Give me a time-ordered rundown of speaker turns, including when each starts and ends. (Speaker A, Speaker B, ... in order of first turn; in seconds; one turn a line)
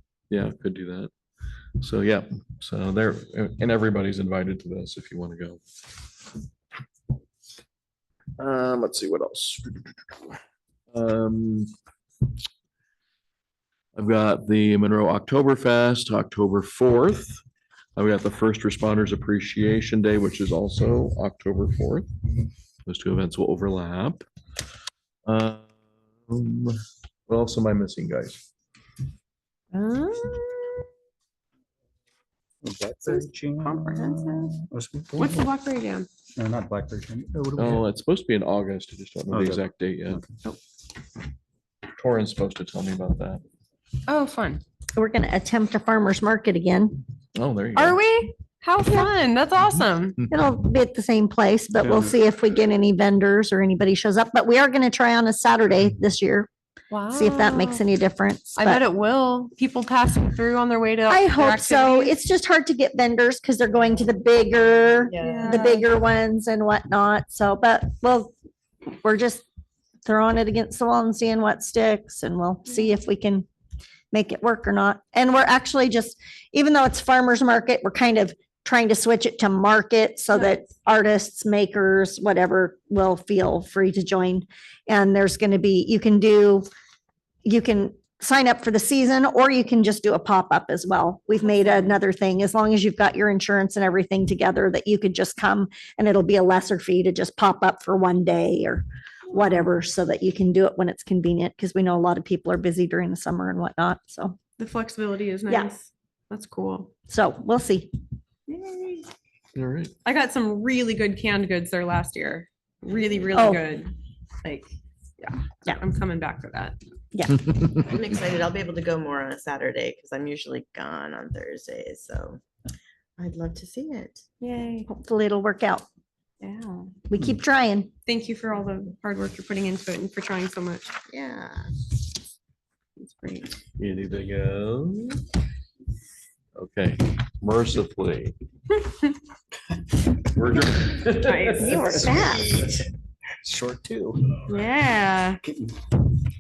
Speaker A: 0.3-1.1
Speaker A: 1.8-5.6
Speaker A: 8.4-10.4
Speaker A: 10.9-11.7
Speaker A: 14.0-17.4
Speaker A: 18.0-22.1
Speaker A: 22.9-24.2
Speaker A: 25.3-25.7
Speaker A: 26.3-26.8
Speaker A: 27.3-28.4
Speaker B: 29.7-30.5
Speaker C: 32.6-35.5
Speaker B: 33.1-34.6
Speaker B: 35.2-36.1
Speaker C: 36.4-37.9
Speaker A: 37.6-40.2
Speaker C: 39.3-40.2
Speaker A: 42.0-43.4
Speaker B: 44.1-44.6
Speaker D: 45.0-47.0
Speaker A: 47.4-48.0
Speaker B: 47.8-50.2
Speaker D: 50.3-56.5
Speaker B: 56.9-57.8
Speaker D: 57.1-58.8
Speaker B: 58.5-62.2
Speaker D: 61.1-68.3
Speaker E: 65.1-65.8
Speaker B: 65.2-65.8
Speaker D: 69.0-69.4
Speaker D: 70.0-73.5
Speaker D: 74.1-86.7
Speaker B: 80.3-80.6
Speaker D: 87.4-104.4
Speaker B: 104.6-106.9
Speaker D: 107.1-107.9
Speaker B: 108.5-109.1
Speaker A: 109.5-109.9
Speaker B: 110.0-116.8
Speaker D: 113.3-113.6
Speaker D: 117.1-117.4
Speaker E: 117.7-122.4
Speaker E: 123.2-124.3
Speaker B: 124.4-124.9
Speaker D: 124.8-125.9
Speaker B: 126.5-126.8
Speaker D: 127.1-127.9
Speaker B: 128.1-130.9
Speaker E: 131.1-131.7
Speaker B: 133.0-133.5
Speaker A: 133.8-135.2
Speaker A: 136.6-138.3
Speaker A: 140.3-141.9
Speaker B: 141.2-142.3
Speaker D: 141.6-142.7
Speaker C: 143.4-144.4
Speaker B: 144.5-145.4